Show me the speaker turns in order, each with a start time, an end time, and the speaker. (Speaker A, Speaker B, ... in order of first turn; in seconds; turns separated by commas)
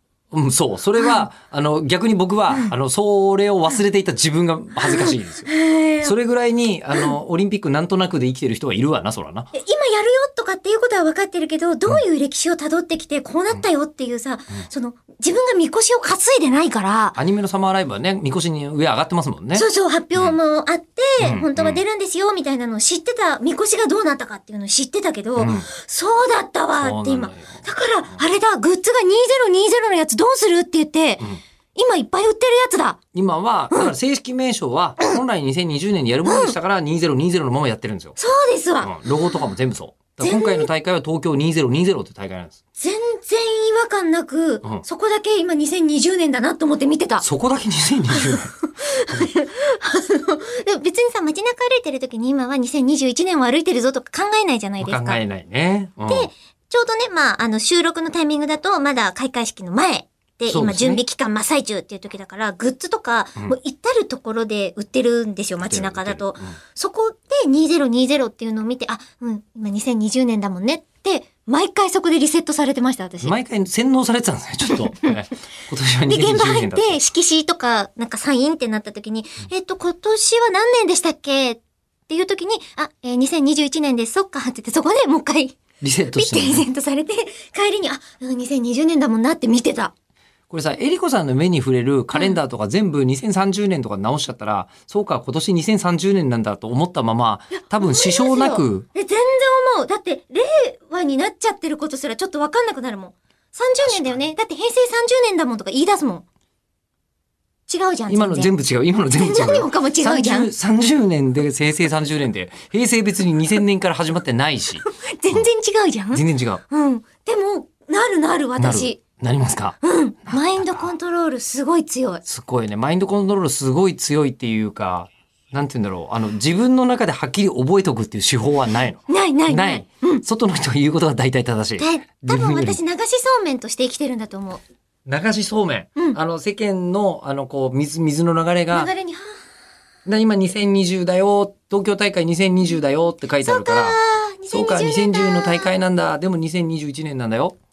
Speaker A: 0.3-5.5, Speaker B: 1.0-1.2, Speaker B: 4.8-6.2, Speaker A: 6.0-9.5, Speaker B: 9.5-17.2, Speaker A: 17.2-20.4, Speaker B: 19.5-33.0, Speaker A: 21.2-21.8, Speaker A: 25.4-25.7, Speaker A: 26.8-28.2, Speaker A: 33.1-38.2, Speaker B: 36.2-36.6, Speaker B: 38.2-39.0, Speaker A: 38.8-42.6, Speaker B: 40.2-40.7, Speaker B: 42.8-47.2, Speaker A: 47.2-48.5, Speaker B: 48.1-55.2, Speaker A: 54.8-56.3, Speaker B: 56.1-73.3, Speaker A: 60.5-61.0, Speaker A: 65.6-66.6, Speaker A: 73.2-77.0, Speaker B: 74.7-75.1, Speaker B: 76.1-85.6, Speaker A: 85.8-86.7, Speaker B: 86.1-89.9, Speaker A: 90.5-98.8, Speaker B: 97.7-106.2, Speaker A: 103.9-104.2, Speaker B: 107.7-108.5, Speaker A: 108.1-115.5, Speaker B: 109.2-110.5, Speaker B: 114.8-119.0, Speaker A: 116.1-116.6, Speaker A: 118.6-120.9, Speaker B: 119.8-122.2, Speaker A: 122.2-132.8, Speaker B: 129.1-130.2, Speaker B: 131.8-134.6, Speaker A: 135.1-138.9, Speaker B: 138.7-139.4, Speaker A: 140.1-144.0, Speaker B: 143.4-145.7, Speaker A: 144.5-147.6